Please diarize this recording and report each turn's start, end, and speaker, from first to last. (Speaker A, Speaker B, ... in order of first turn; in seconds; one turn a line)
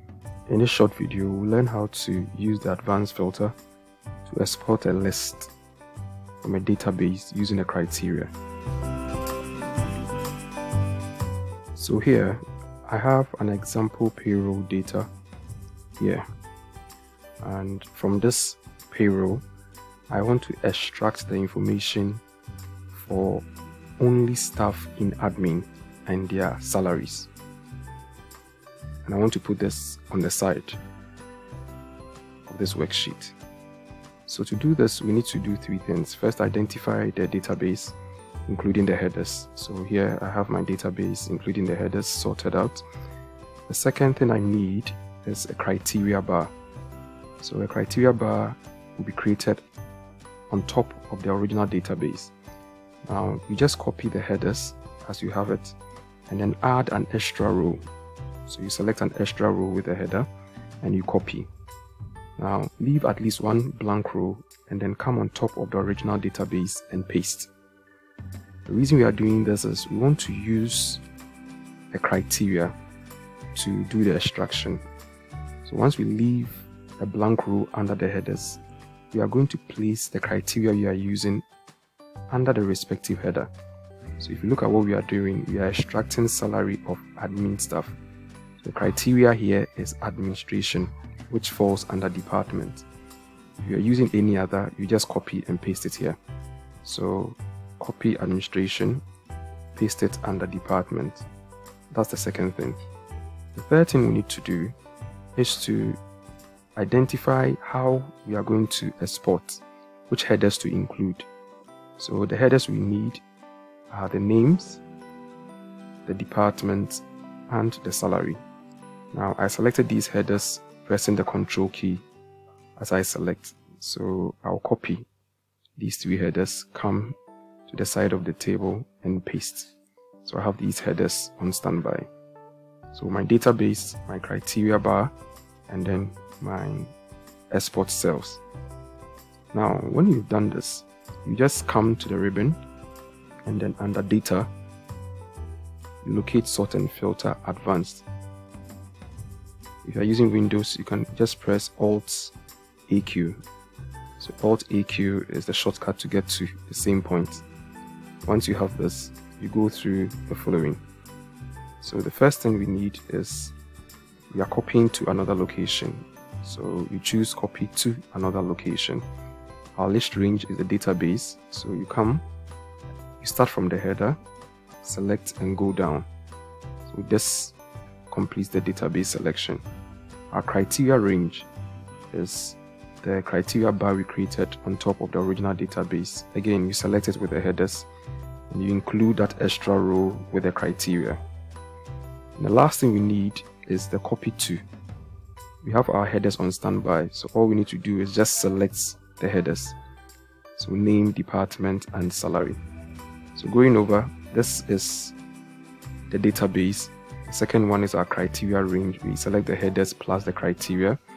Speaker A: 0.5-3.5
Speaker A: 4.3-5.5
Speaker A: 6.4-8.3
Speaker A: 11.7-15.1
Speaker A: 16.0-16.2
Speaker A: 17.4-19.4
Speaker A: 20.1-22.2
Speaker A: 22.9-23.4
Speaker A: 24.0-27.3
Speaker A: 29.0-30.8
Speaker A: 32.5-33.3
Speaker A: 34.3-38.0
Speaker A: 38.5-42.8
Speaker A: 43.7-46.5
Speaker A: 47.4-49.6
Speaker A: 50.5-52.3
Speaker A: 53.0-55.8
Speaker A: 56.3-57.8
Speaker A: 58.5-60.3
Speaker A: 60.8-61.5
Speaker A: 62.4-67.5
Speaker A: 68.7-71.0
Speaker A: 71.9-72.7
Speaker A: 73.5-74.8
Speaker A: 75.6-81.4
Speaker A: 82.3-83.5
Speaker A: 84.2-87.9
Speaker A: 88.6-92.8
Speaker A: 93.6-96.2
Speaker A: 96.8-99.0
Speaker A: 99.7-101.2
Speaker A: 101.9-102.8
Speaker A: 103.5-104.7
Speaker A: 105.3-106.0
Speaker A: 106.8-111.3
Speaker A: 112.0-113.2
Speaker A: 113.9-114.8
Speaker A: 116.0-118.4
Speaker A: 119.1-122.0
Speaker A: 122.8-125.1
Speaker A: 125.8-127.2
Speaker A: 127.7-129.7
Speaker A: 130.2-132.1
Speaker A: 132.9-135.1
Speaker A: 135.7-136.9
Speaker A: 137.5-138.4
Speaker A: 139.5-142.6
Speaker A: 143.4-144.5
Speaker A: 146.0-148.0
Speaker A: 149.8-152.3
Speaker A: 152.9-153.4
Speaker A: 154.2-157.4
Speaker A: 158.2-160.8
Speaker A: 161.8-163.5
Speaker A: 164.3-169.0
Speaker A: 169.8-172.2
Speaker A: 173.2-174.2
Speaker A: 174.8-176.1
Speaker A: 176.9-177.6
Speaker A: 178.1-179.6
Speaker A: 180.3-181.5
Speaker A: 182.1-187.9
Speaker A: 188.5-191.2
Speaker A: 192.4-194.6
Speaker A: 195.6-199.7
Speaker A: 200.6-202.6
Speaker A: 203.3-205.2
Speaker A: 206.1-211.0